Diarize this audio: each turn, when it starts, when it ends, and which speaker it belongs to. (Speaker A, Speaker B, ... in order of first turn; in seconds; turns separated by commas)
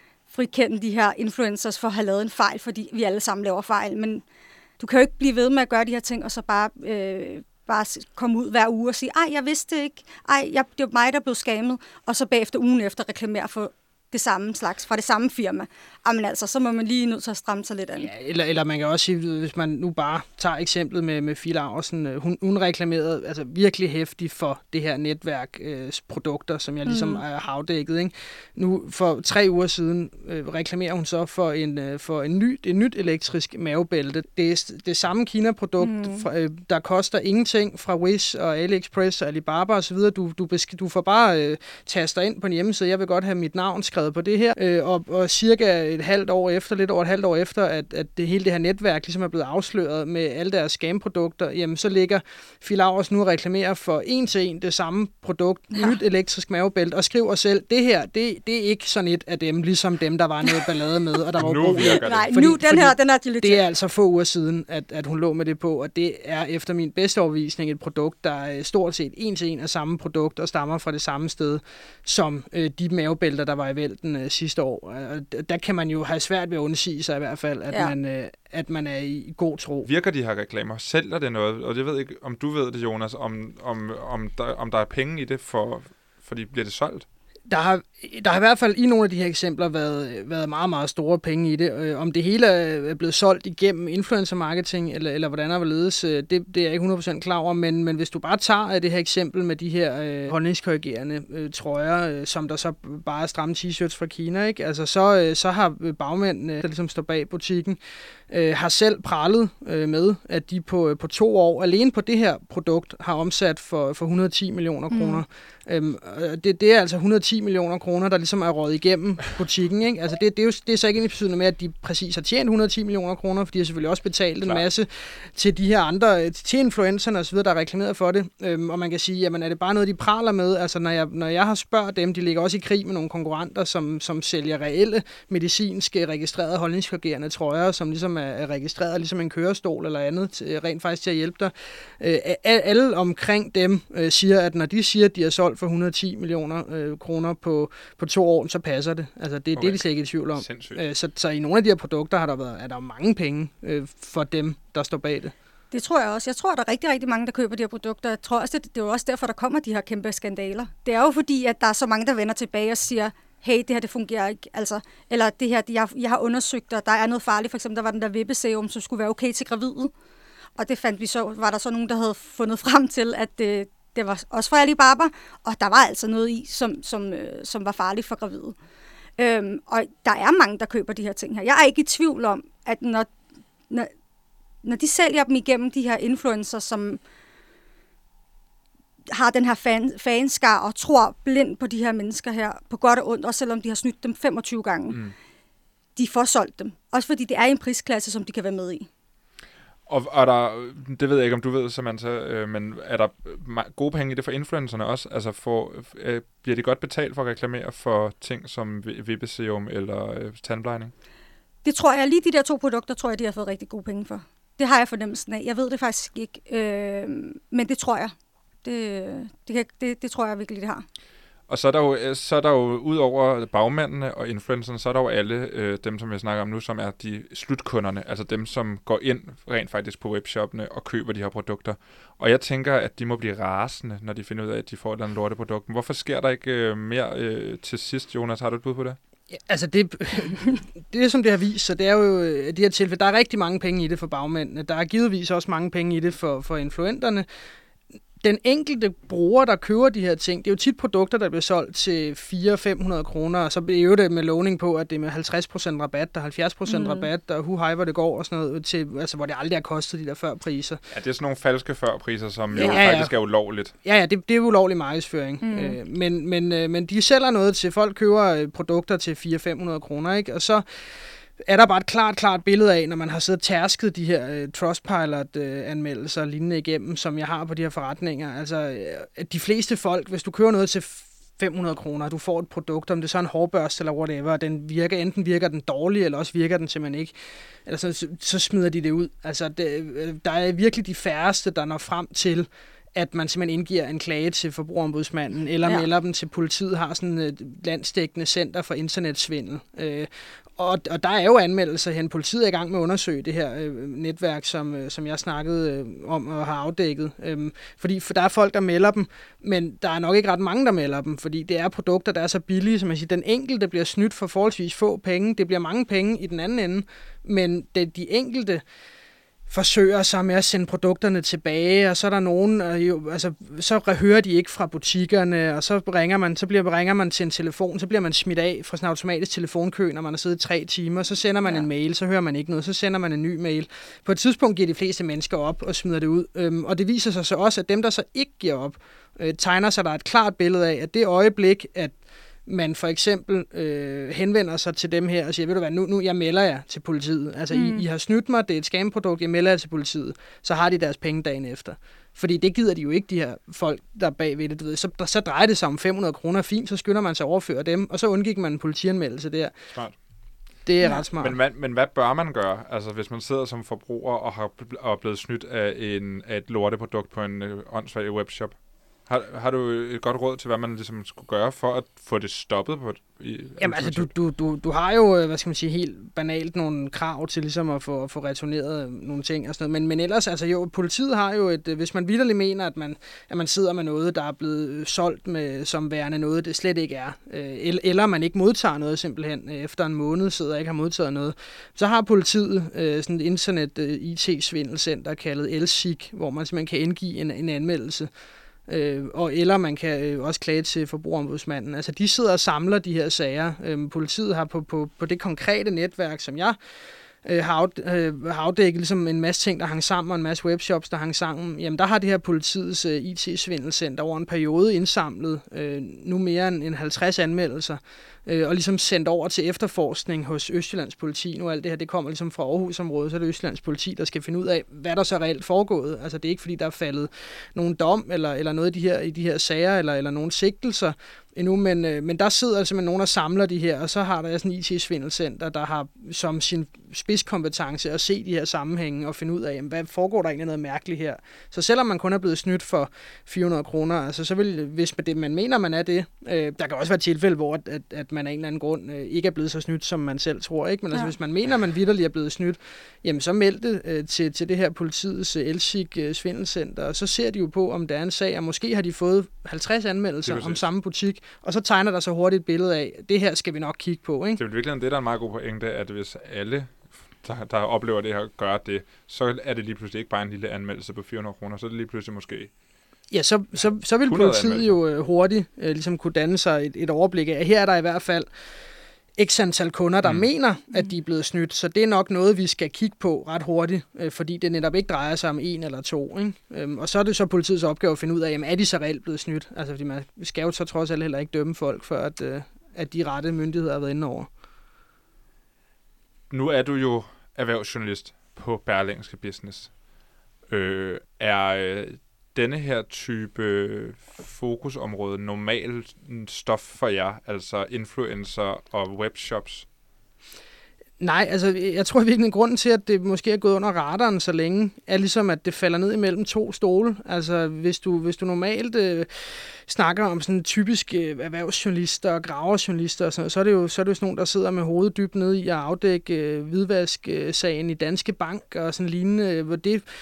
Speaker A: 0.3-4.2, Speaker A: 4.8-18.1, Speaker B: 18.0-79.9, Speaker A: 26.9-27.2, Speaker A: 35.8-36.3, Speaker C: 61.4-62.3, Speaker A: 61.8-63.6, Speaker C: 79.8-87.1, Speaker B: 87.5-155.3, Speaker A: 114.9-115.2, Speaker C: 149.6-150.8, Speaker A: 155.7-169.9, Speaker A: 170.6-178.6, Speaker A: 179.2-183.1, Speaker A: 184.6-187.0, Speaker A: 189.1-195.0, Speaker A: 195.9-198.9, Speaker C: 199.9-210.9, Speaker A: 211.6-220.8, Speaker C: 221.5-239.0, Speaker B: 239.3-247.2, Speaker B: 248.2-260.8, Speaker A: 256.7-257.1, Speaker C: 260.9-263.7, Speaker B: 262.6-263.1, Speaker B: 263.8-318.6, Speaker A: 265.4-265.8, Speaker B: 319.5-359.5, Speaker A: 347.5-347.8, Speaker B: 360.6-361.4, Speaker C: 361.1-374.1, Speaker B: 373.6-398.1, Speaker B: 398.7-406.6, Speaker B: 407.2-464.4, Speaker C: 460.2-460.6, Speaker C: 464.4-472.5, Speaker B: 473.1-478.3, Speaker C: 474.0-474.8, Speaker B: 479.2-494.3, Speaker C: 496.3-499.7, Speaker C: 500.5-509.6, Speaker B: 511.0-529.8